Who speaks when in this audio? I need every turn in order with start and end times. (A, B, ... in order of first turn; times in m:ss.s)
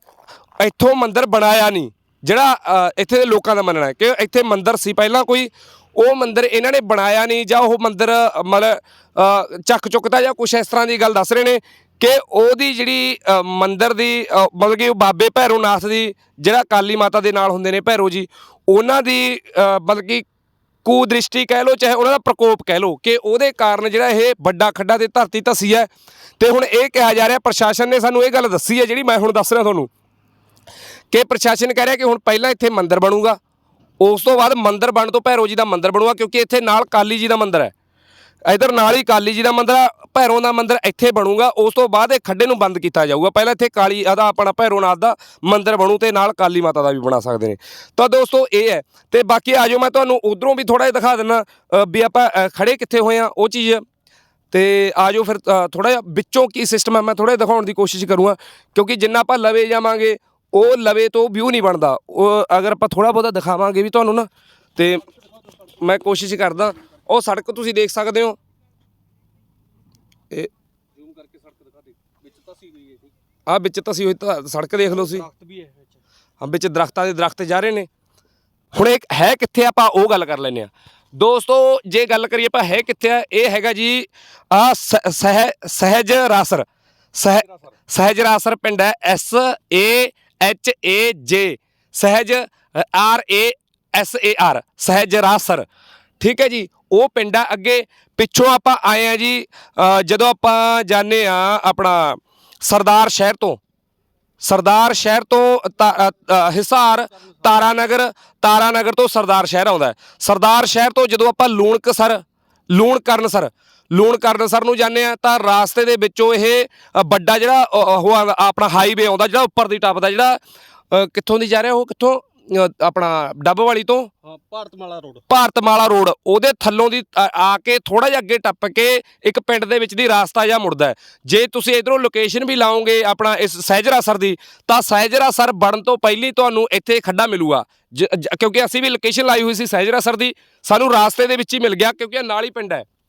0:00.6-0:20.2 A
0:20.8-0:25.9 A
0:26.4-0:29.9 A
0:31.1-0:33.4 A
0:34.0-0:37.7 A
0:38.4-0:53.8 A
0:54.5-1:05.0 A
1:05.8-1:08.4 A
1:11.0-1:13.1 B
1:13.5-1:15.3 A
1:15.0-1:16.0 B
1:16.4-1:17.9 A
1:18.7-1:35.7 A
1:36.2-1:43.6 A
1:44.4-2:00.4 A
2:00.9-2:04.1 A
2:04.2-2:05.2 B
2:05.3-2:22.8 A